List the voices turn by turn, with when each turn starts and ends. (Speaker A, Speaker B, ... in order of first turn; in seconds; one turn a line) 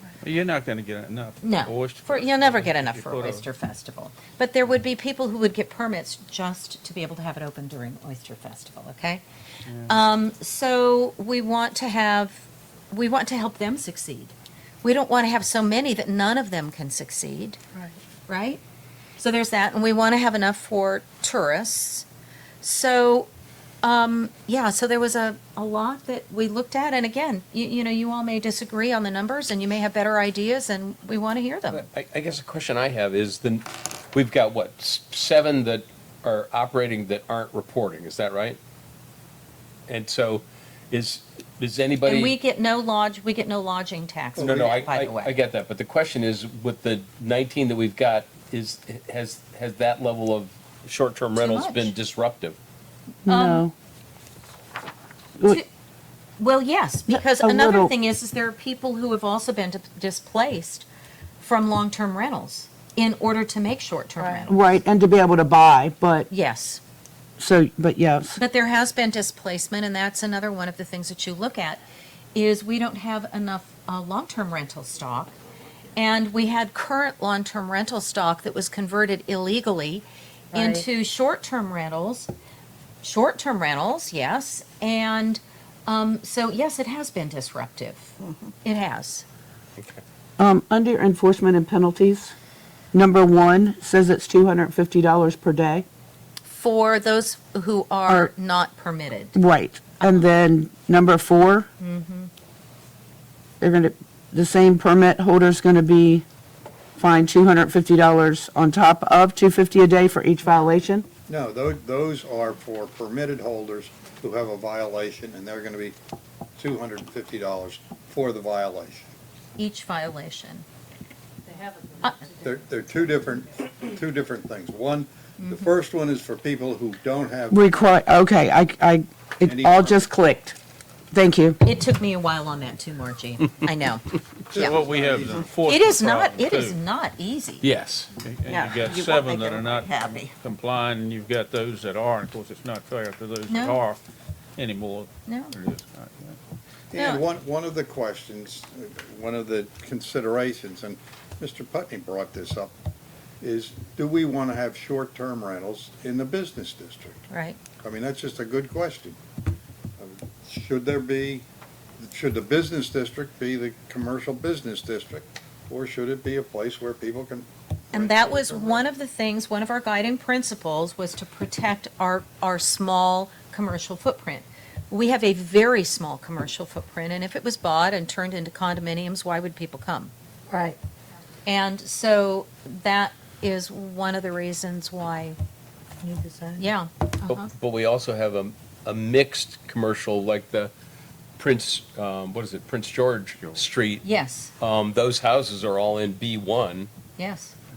Speaker A: 0.2-3.4
Speaker B: 1.4-9.2
Speaker A: 9.7-9.9
Speaker B: 9.9-17.6
Speaker B: 18.3-18.6
Speaker B: 19.2-22.1
Speaker B: 22.6-23.3
Speaker B: 23.8-31.9
Speaker C: 31.7-38.6
Speaker C: 39.9-42.4
Speaker B: 42.0-45.4
Speaker D: 44.4-44.8
Speaker C: 44.4-52.6
Speaker B: 51.4-51.9
Speaker B: 53.2-53.6
Speaker E: 53.2-53.7
Speaker B: 55.4-55.7
Speaker B: 56.4-60.9
Speaker E: 57.1-57.9
Speaker B: 61.4-64.6
Speaker E: 64.4-66.3
Speaker B: 66.3-66.8
Speaker E: 67.4-68.4
Speaker B: 68.3-71.8
Speaker B: 72.3-75.3
Speaker B: 75.9-82.3
Speaker B: 83.0-89.2
Speaker E: 90.4-92.3
Speaker E: 92.9-95.8
Speaker B: 96.5-99.3
Speaker E: 99.3-101.7
Speaker B: 101.8-102.3
Speaker E: 103.6-106.2
Speaker E: 107.0-111.0
Speaker D: 111.3-116.0
Speaker D: 116.5-119.1
Speaker B: 119.5-120.6
Speaker F: 121.5-121.8
Speaker B: 122.0-122.3
Speaker D: 122.3-127.6
Speaker B: 125.4-125.7
Speaker E: 127.5-130.6
Speaker D: 129.4-130.1
Speaker E: 131.1-131.6
Speaker B: 131.6-134.8
Speaker D: 134.5-135.5
Speaker A: 134.5-136.8
Speaker B: 135.7-137.7
Speaker C: 137.6-138.1
Speaker A: 138.2-144.0
Speaker F: 138.5-140.3
Speaker B: 143.5-143.8
Speaker A: 144.6-146.4
Speaker B: 145.3-145.5
Speaker D: 146.9-152.7
Speaker B: 146.9-147.2
Speaker D: 153.4-157.2
Speaker B: 157.3-157.6
Speaker D: 157.8-159.2
Speaker D: 160.0-161.4
Speaker D: 162.0-168.9
Speaker B: 167.9-180.1
Speaker F: 180.5-180.8
Speaker B: 181.4-185.4
Speaker F: 186.0-186.7
Speaker B: 186.6-187.5
Speaker C: 187.3-190.7
Speaker C: 191.4-194.1
Speaker B: 194.0-194.5
Speaker C: 194.6-196.9
Speaker B: 197.2-197.5